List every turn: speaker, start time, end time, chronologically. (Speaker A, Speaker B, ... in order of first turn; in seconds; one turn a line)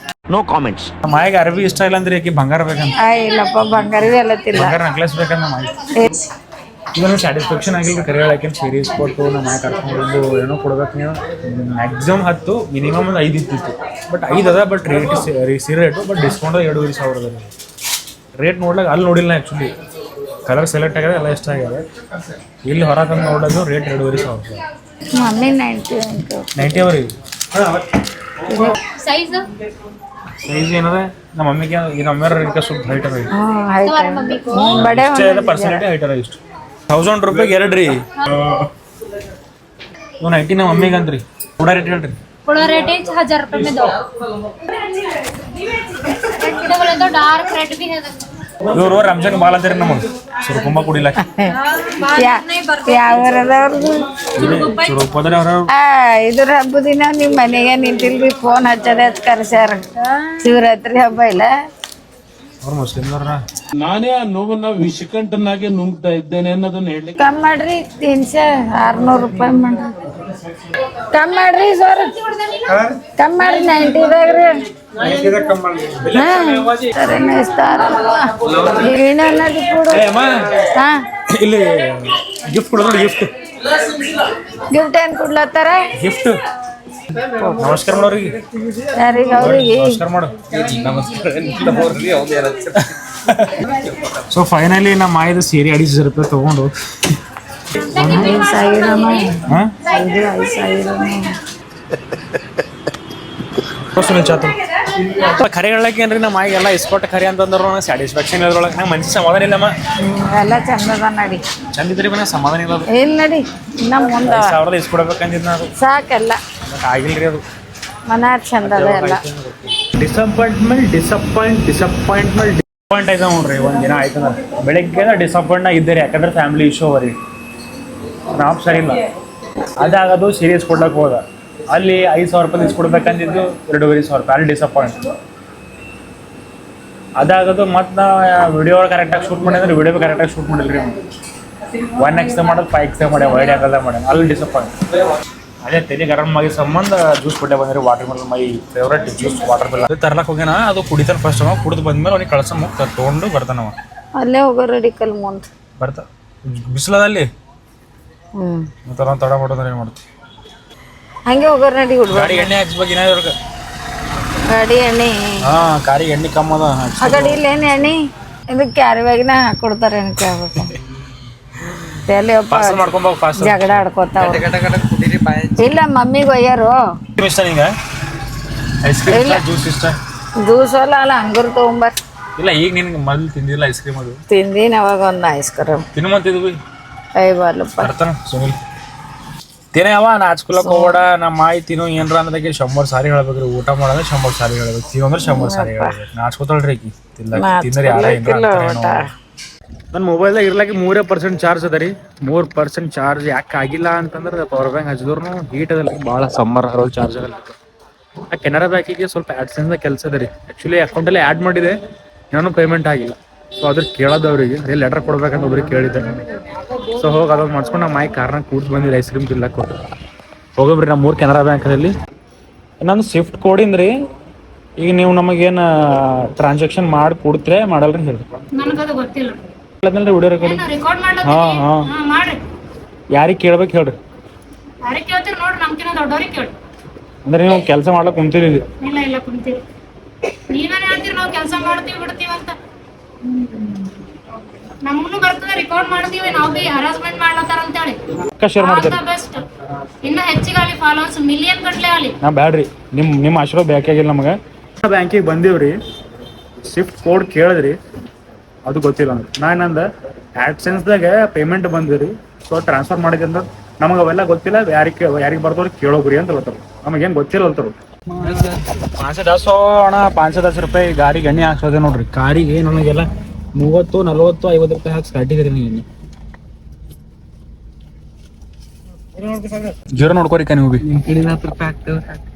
Speaker A: 0.3-0.9
Speaker B: 1.0-3.0
Speaker C: 3.0-4.8
Speaker B: 4.5-5.7
Speaker C: 6.0-6.2
Speaker B: 6.9-17.5
Speaker B: 18.4-19.7
Speaker B: 20.4-21.8
Speaker B: 22.6-24.6
Speaker C: 25.2-26.8
Speaker B: 26.6-28.0
Speaker C: 28.5-28.8
Speaker D: 28.8-29.5
Speaker B: 30.4-33.3
Speaker C: 33.3-35.8
Speaker D: 33.8-34.8
Speaker B: 34.6-38.7
Speaker B: 40.2-42.2
Speaker D: 42.4-44.0
Speaker D: 45.9-48.2
Speaker B: 48.7-51.2
Speaker C: 51.2-51.5
Speaker D: 51.5-53.3
Speaker C: 52.1-54.0
Speaker B: 54.4-55.7
Speaker D: 54.4-55.0
Speaker C: 55.7-59.8
Speaker C: 60.4-61.5
Speaker B: 62.6-63.4
Speaker A: 63.8-67.2
Speaker C: 67.2-69.9
Speaker C: 71.1-72.1
Speaker B: 72.7-73.0
Speaker C: 73.2-74.5
Speaker B: 75.0-77.2
Speaker C: 76.1-80.0
Speaker B: 78.5-78.8
Speaker B: 79.9-80.5
Speaker B: 81.3-83.3
Speaker C: 84.7-85.8
Speaker B: 86.0-86.4
Speaker C: 87.3-87.6
Speaker B: 87.6-88.4
Speaker C: 88.9-90.0
Speaker B: 89.4-92.2
Speaker A: 90.7-92.7
Speaker B: 92.7-93.7
Speaker B: 94.3-97.2
Speaker D: 97.8-99.3
Speaker B: 97.9-98.3
Speaker C: 97.9-101.3
Speaker B: 99.5-99.7
Speaker B: 103.8-104.5
Speaker B: 105.1-109.7
Speaker C: 110.0-111.4
Speaker B: 111.7-112.9
Speaker C: 112.9-114.5
Speaker B: 114.2-115.7
Speaker C: 115.8-116.4
Speaker B: 116.7-117.4
Speaker C: 118.1-119.2
Speaker B: 118.6-127.2
Speaker B: 128.3-129.0
Speaker B: 129.8-135.0
Speaker B: 137.2-141.0
Speaker B: 141.9-144.7
Speaker B: 145.6-153.8
Speaker C: 154.2-155.5
Speaker B: 155.8-157.3
Speaker C: 158.4-158.7
Speaker B: 158.8-160.0
Speaker C: 161.3-162.5
Speaker B: 162.1-163.3
Speaker C: 164.5-165.2
Speaker B: 165.4-167.4
Speaker C: 167.0-167.9
Speaker C: 168.5-170.8
Speaker C: 172.1-174.5
Speaker B: 172.5-173.8
Speaker A: 174.5-175.4
Speaker C: 175.5-176.8
Speaker B: 177.2-177.7
Speaker B: 178.8-179.9
Speaker C: 179.1-179.4
Speaker C: 180.4-181.9
Speaker B: 182.3-184.2
Speaker C: 184.3-185.8
Speaker B: 185.9-186.6
Speaker C: 187.2-187.9
Speaker B: 187.8-188.6
Speaker B: 189.7-199.0
Speaker C: 190.5-191.0
Speaker C: 195.2-195.9
Speaker C: 197.3-199.1
Speaker B: 199.9-207.6
Speaker B: 208.3-211.8
Speaker B: 212.3-216.2
Speaker B: 216.9-219.8
Speaker B: 220.6-221.9
Speaker B: 222.8-223.9
Speaker B: 224.8-228.3
Speaker D: 228.6-229.5
Speaker B: 229.8-230.6
Speaker D: 230.4-232.4
Speaker B: 231.2-231.9
Speaker B: 233.1-233.9
Speaker D: 234.8-236.6
Speaker B: 237.2-238.7
Speaker D: 238.8-239.6
Speaker D: 240.5-242.6
Speaker D: 244.8-248.0
Speaker B: 248.3-249.0
Speaker D: 248.6-249.5
Speaker D: 250.0-252.2
Speaker B: 252.2-255.8
Speaker B: 256.6-257.8
Speaker B: 258.6-259.9
Speaker B: 260.4-275.9
Speaker B: 279.8-280.9
Speaker A: 281.0-282.0